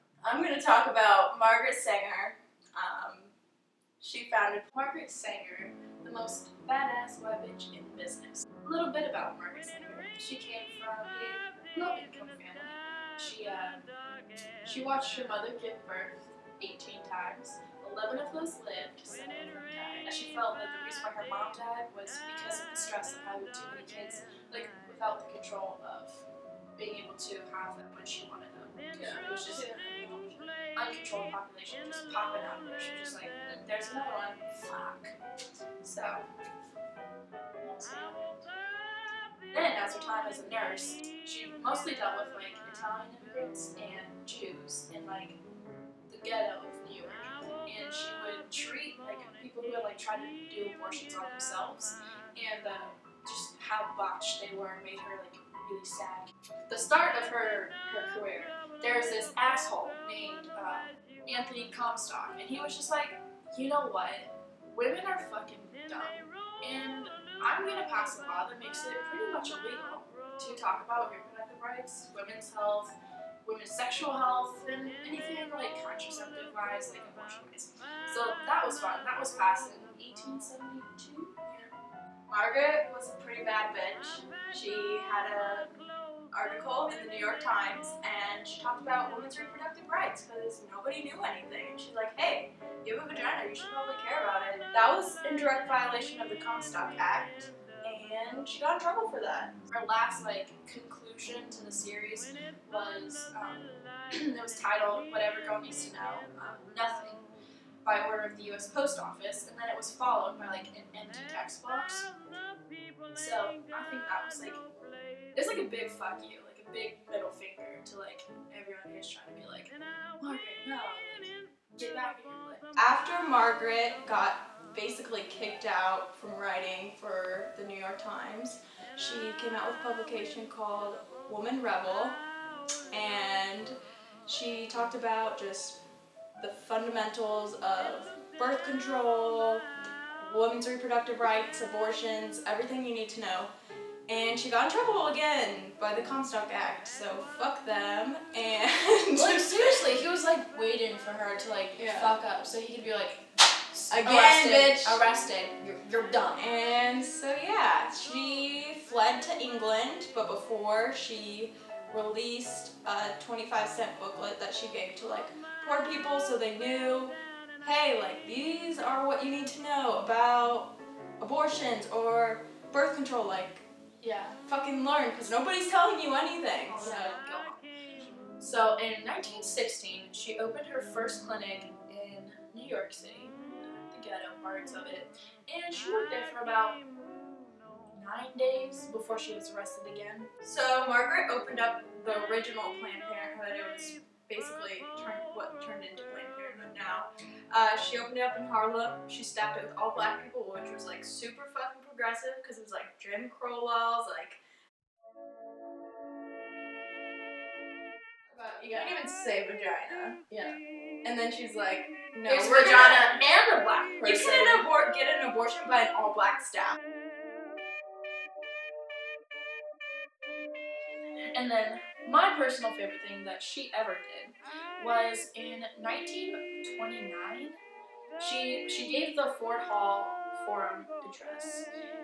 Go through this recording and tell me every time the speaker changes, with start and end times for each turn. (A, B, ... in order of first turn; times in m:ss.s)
0:00.2-0:03.3 A
0:04.0-0:04.7 A
0:04.7-0:13.8 B
0:14.6-0:26.2 B
0:26.8-0:35.1 B
0:28.9-0:29.9 A
0:35.8-0:36.3 B
0:37.6-0:38.5 B
0:39.5-0:45.4 B
0:46.1-1:21.7 B
1:22.3-1:25.7 A
1:26.3-1:39.5 A
1:39.7-1:47.2 B
1:47.8-1:52.1 B
1:53.1-1:54.6 B
1:55.4-2:02.7 B
2:02.8-2:12.2 A
2:12.9-2:15.8 A
2:16.4-2:19.6 A
2:20.2-2:23.5 A
2:24.1-2:29.8 A
2:29.1-2:36.4 B
2:31.8-2:32.2 A
2:33.9-2:35.0 A
2:36.3-2:53.6 A
2:54.0-2:54.4 B
2:54.4-2:57.2 A
2:56.7-2:57.7 B
2:58.4-3:06.8 B
3:07.9-3:10.3 B
3:10.4-3:24.4 A
3:28.3-3:28.9 B
3:28.6-3:30.3 A
3:30.3-3:30.6 B
3:31.0-3:33.2 A
3:32.2-3:34.7 B
3:34.0-3:36.8 A
3:41.3-3:47.6 B
3:48.2-3:51.7 B